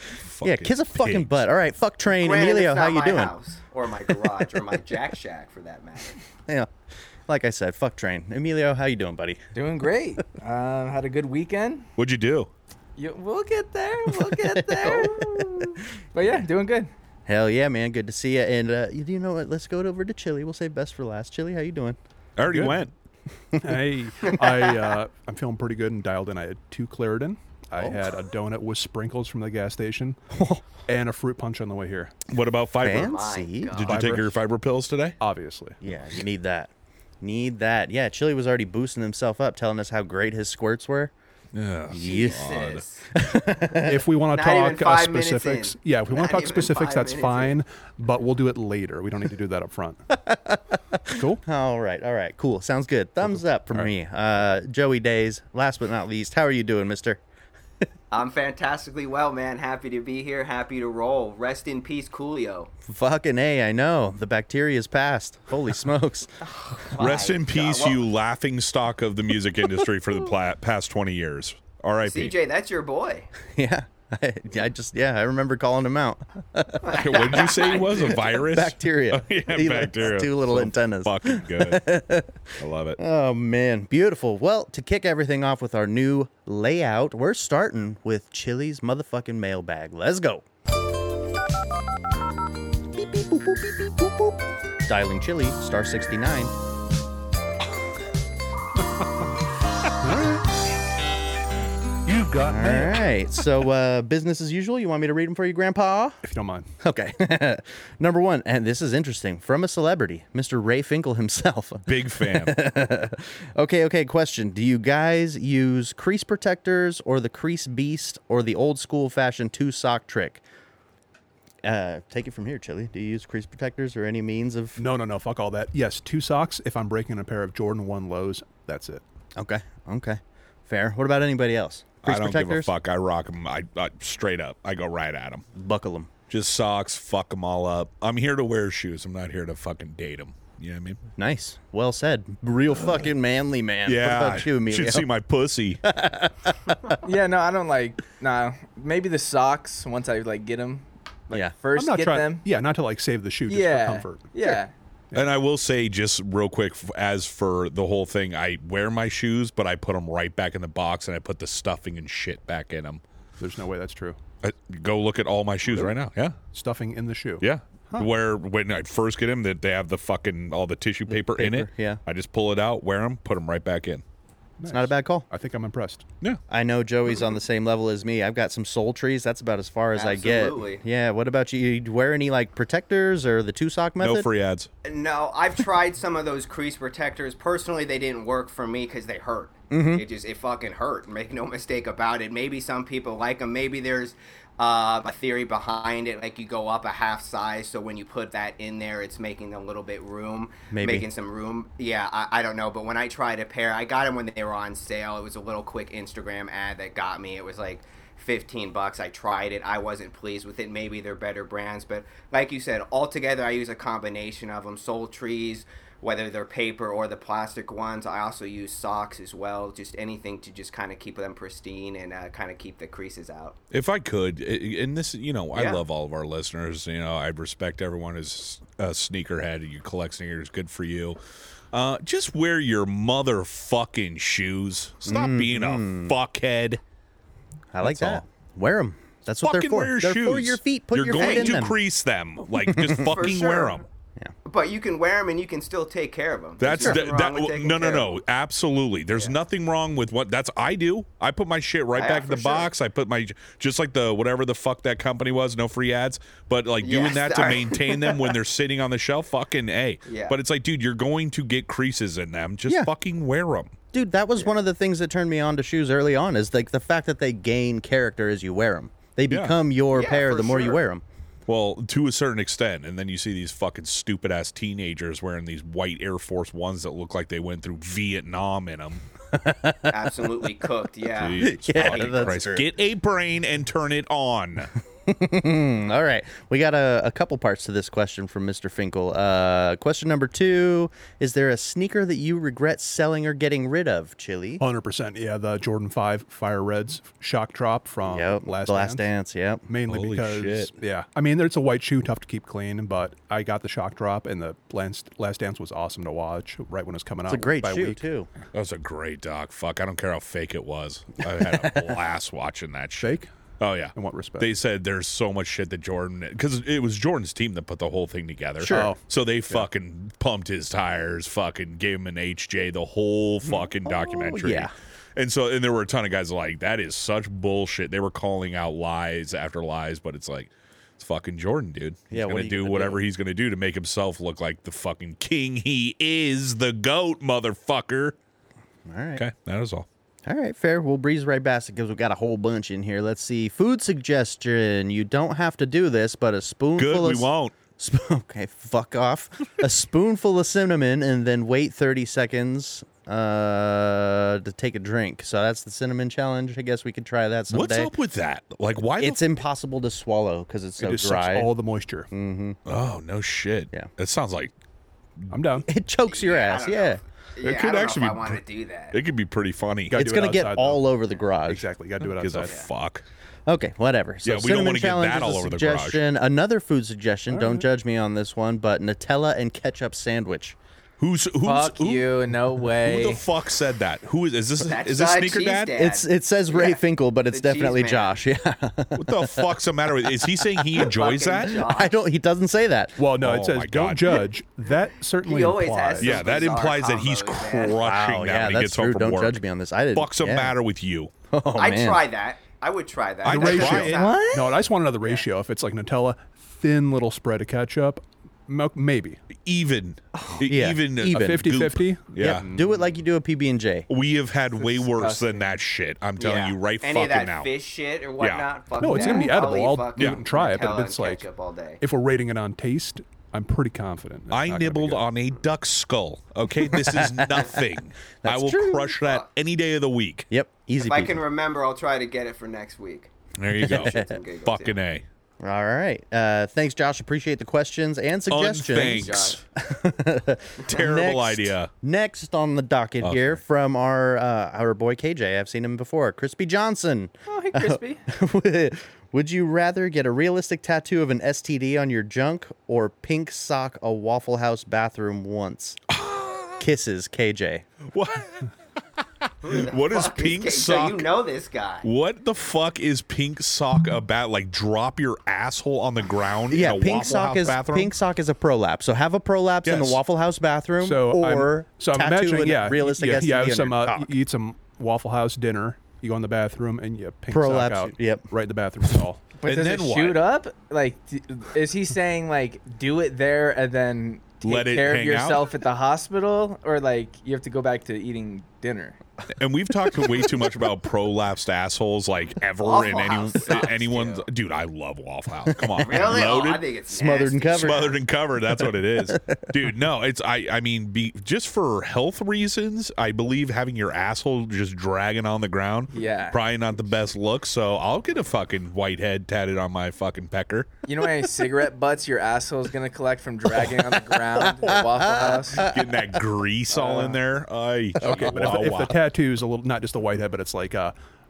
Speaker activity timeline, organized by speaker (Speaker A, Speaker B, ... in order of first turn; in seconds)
Speaker A: 0.1-1.4, 11.9-12.5, 22.4-22.9, 32.3-33.2, 33.8-35.2, 41.5-42.8, 67.0-72.3, 76.9-81.8, 82.6-83.0, 111.8-112.6, 132.0-135.4, 136.3-141.0, 143.8-145.8, 155.1-163.0, 164.4-166.4, 167.4-174.0, 184.0-184.7, 223.7-231.2, 231.7-236.8, 237.8-238.2, 239.4-243.8, 246.6-263.7, 269.3-269.6, 271.5-279.0, 281.1-284.7, 299.9-300.7, 308.5-338.1, 339.1-339.9, 346.8-347.5, 357.5-359.4, 362.6-364.5, 365.2-365.6, 367.4-369.9, 372.0-373.0, 374.2-376.0, 381.0-382.1, 382.8-385.8, 388.9-391.6, 393.1-394.2, 396.0-399.4, 399.9-401.1, 403.2-404.0, 409.4-412.4, 413.9-417.5, 418.2-418.4, 424.3-430.2, 433.4-435.0, 438.3-439.4, 440.6-441.7, 443.0-443.4, 456.0-456.5, 457.9-458.5, 459.5-461.1, 461.8-467.9, 469.6-470.0, 479.4-480.2, 484.4-485.5, 489.4-496.6, 497.5-510.7, 515.6-518.9
Speaker B: 0.4-3.3, 7.3-9.4, 14.4-15.6, 17.2-22.0, 27.8-28.1, 32.8-33.8, 35.8-41.1, 41.9-42.5, 43.1-44.0, 50.1-57.2, 62.9-66.3, 73.5-77.2, 78.2-82.4, 83.0-90.4, 92.9-96.5, 102.4-106.2, 106.8-120.4, 121.6-124.8, 129.3-132.7, 135.5-136.1, 141.2-145.1, 145.8-146.7, 171.1-172.0, 174.7-175.2, 176.5-184.3, 189.7-190.0, 200.7-201.1, 235.0-236.1, 237.7-241.8, 242.7-243.1, 246.8-247.0, 263.9-271.0, 279.3-280.3, 281.4-282.7, 285.1-294.6, 298.0-299.6, 307.3-308.3, 311.6-311.9, 318.6-318.9, 323.4-324.7, 332.1-333.0, 338.9-339.2, 340.2-357.9, 359.0-361.5, 362.1-362.6, 365.7-367.0, 369.9-371.6, 373.5-380.6, 385.8-389.5, 390.0-390.9, 391.5-393.0, 397.7-400.5, 401.3-402.0, 403.8-404.5, 410.2-411.3, 412.2-413.9, 426.6-427.6, 428.2-428.9, 430.3-431.2, 433.6-434.1, 435.4-455.8, 456.6-457.6, 466.5-474.1, 477.3-478.3, 489.9-490.3, 495.4-496.2, 496.9-497.9, 499.0-499.4, 514.2-516.0, 518.0-518.7
Speaker C: 2.1-6.2, 32.8-34.2, 41.9-43.0, 44.3-47.6, 58.1-62.7, 66.7-68.0, 72.0-73.3, 76.8-78.4, 179.9-180.8, 184.8-223.6, 225.5-225.8, 241.1-241.6, 243.1-243.8, 244.4-248.2, 251.9-252.7, 256.8-258.3, 260.1-260.4, 269.9-270.8, 279.9-282.5, 366.1-369.0, 384.6-388.2, 390.8-391.9, 395.2-397.8, 401.6-405.2, 416.2-421.8, 429.0-429.3, 430.8-433.1, 433.7-434.8, 438.7-439.4, 459.4-461.9, 492.6-494.2, 495.8-498.0
Speaker D: 9.5-11.8, 13.0-16.9, 147.0-152.5, 153.5-154.7, 381.4-383.2, 414.9-415.5, 447.3-448.0, 479.4-489.0, 505.9-506.4, 510.9-515.6
Speaker E: 22.5-22.8, 23.6-30.2, 30.9-32.1, 33.8-34.4, 35.2-35.8, 43.8-50.0, 51.1-51.4, 102.1-103.0, 106.2-106.7, 124.8-129.0, 151.7-154.6, 163.4-164.2, 165.7-165.9, 166.5-168.1, 174.6-176.0, 294.6-299.1, 299.7-308.0, 313.0-313.3, 313.9-314.5, 318.7-319.6, 360.8-362.1, 365.3-365.7, 369.9-370.8, 371.5-372.6, 377.3-377.6, 393.0-396.4, 403.2-409.2, 411.1-412.9, 418.8-421.2, 421.8-425.1, 470.8-479.2, 518.0-520.9